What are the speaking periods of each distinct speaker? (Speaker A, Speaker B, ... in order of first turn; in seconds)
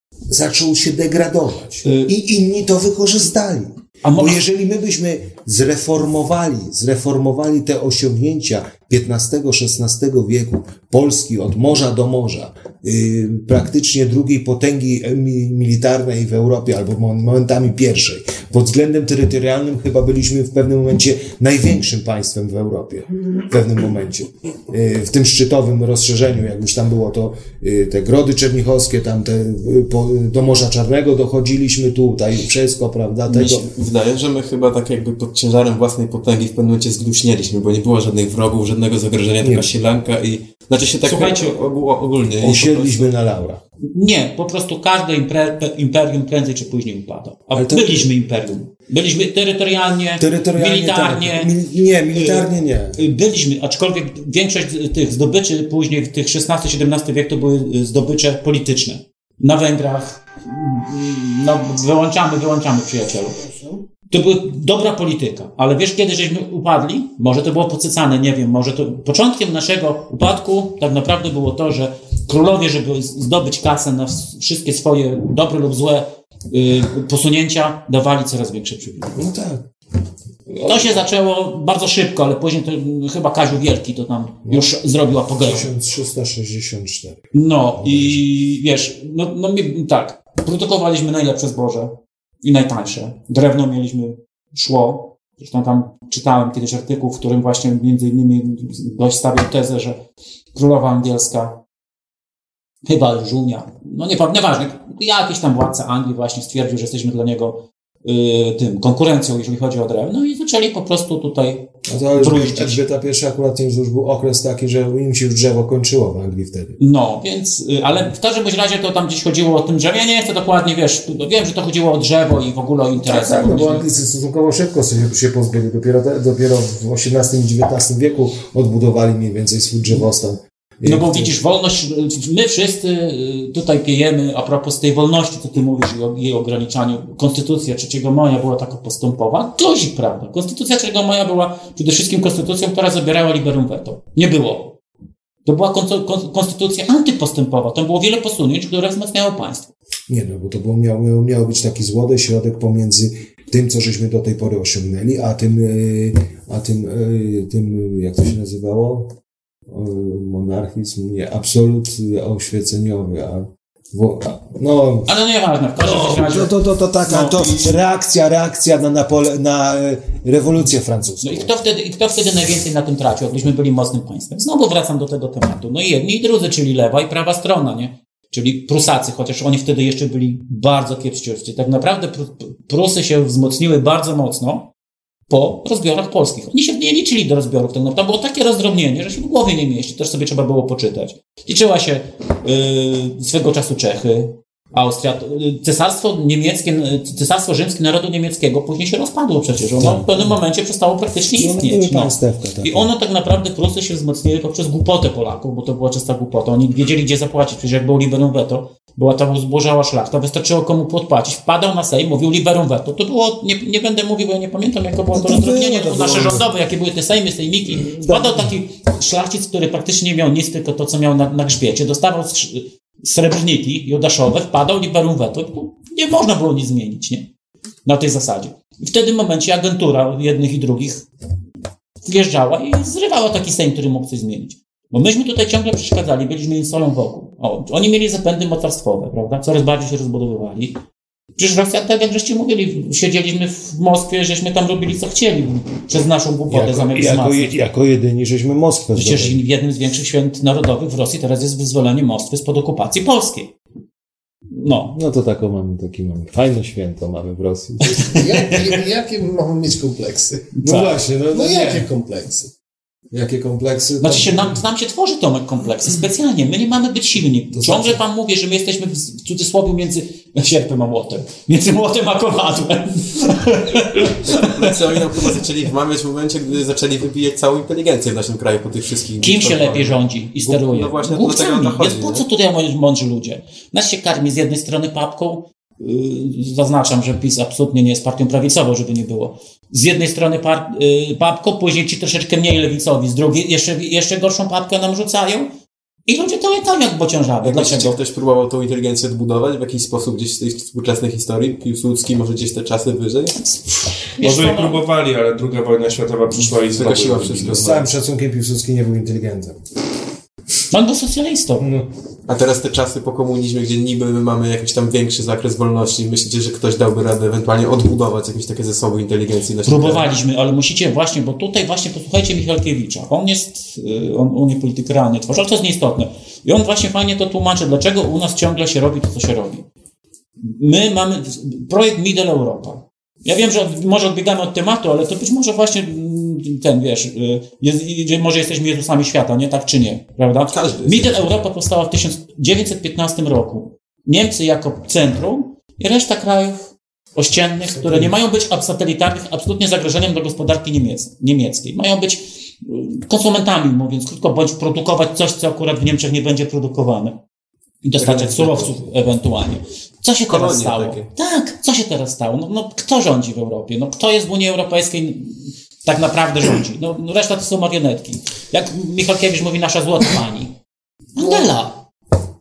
Speaker A: 0.3-33.7, 39.4-39.7, 42.4-43.6, 47.5-48.1, 50.2-53.0, 79.1-79.7, 80.5-81.0, 84.5-84.7, 85.4-87.2, 87.8-88.2, 111.9-116.8, 122.9-131.3, 150.1-159.1, 159.7-165.1, 165.8-171.5, 199.8-200.4, 201.3-202.9, 215.1-216.5, 217.7-218.5, 246.5-249.4, 254.9-258.2, 260.6-261.9, 263.1-264.6, 267.5-268.0, 307.5-309.6, 311.6-311.9, 347.8-348.1
Speaker B: 4.0-4.4, 41.0-41.6, 43.9-51.5, 52.1-63.4, 64.1-79.2, 80.6-85.7, 87.3-100.0, 100.5-101.6, 102.9-112.8, 116.8-123.9, 130.8-144.8, 145.5-149.7, 165.1-166.5, 167.1-167.8, 171.2-184.7, 185.3-227.3, 227.9-231.1, 232.0-240.8, 241.4-247.6, 248.9-253.5, 254.5-255.0, 257.9-258.2, 260.6-260.9, 264.0-274.5, 279.2-295.5, 296.1-298.0, 304.2-304.8, 310.7-311.7, 319.7-329.7, 330.4-357.2, 357.8-370.5, 371.2-371.8
Speaker C: 33.3-43.1, 274.3-282.2, 297.4-303.4, 306.8-307.9, 312.3-320.1, 340.5-341.3, 358.0-358.8, 360.3-361.1
Speaker D: 258.1-260.6, 261.3-262.5
Speaker E: 304.2-307.6